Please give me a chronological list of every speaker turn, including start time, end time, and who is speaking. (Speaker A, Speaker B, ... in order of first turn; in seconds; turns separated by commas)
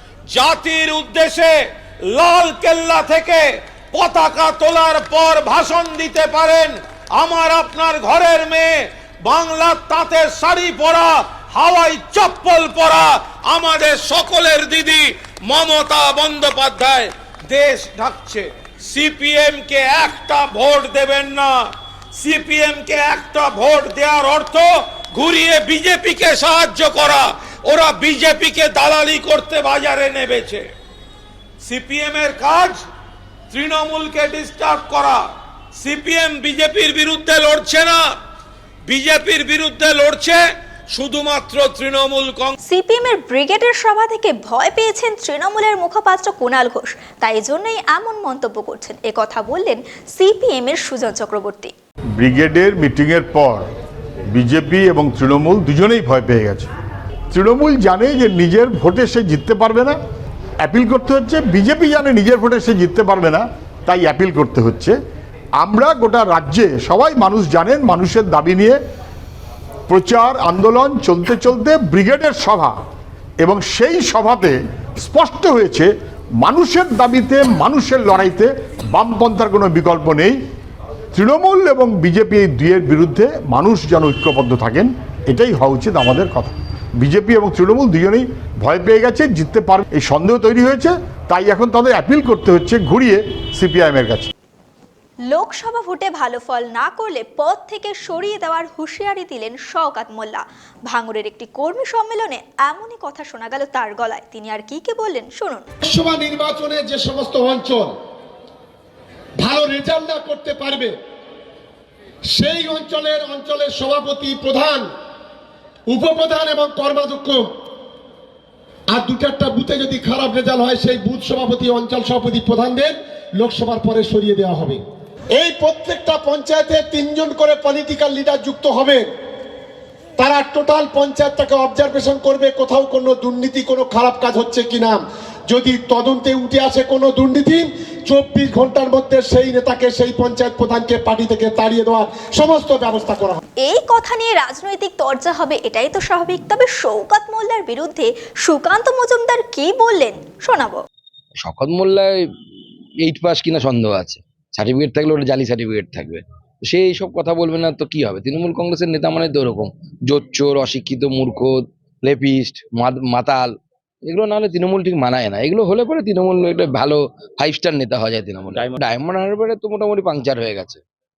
Speaker A: 0.3-30.7, Speaker A: 31.6-32.8, Speaker A: 33.5-38.1, Speaker A: 38.8-42.5, Speaker B: 42.7-51.7, Speaker C: 52.2-53.6, Speaker C: 54.3-56.7, Speaker C: 57.3-60.0, Speaker C: 60.6-65.0, Speaker C: 65.6-68.8, Speaker C: 69.9-72.8, Speaker C: 73.4-80.4, Speaker C: 81.1-94.3, Speaker B: 95.3-105.7, Speaker D: 105.8-107.9, Speaker D: 109.4-111.0, Speaker D: 112.3-114.9, Speaker D: 115.9-117.5, Speaker D: 118.9-124.8, Speaker D: 125.3-129.1, Speaker D: 130.2-143.4, Speaker B: 143.6-150.8, Speaker E: 151.4-152.2, Speaker E: 153.0-170.8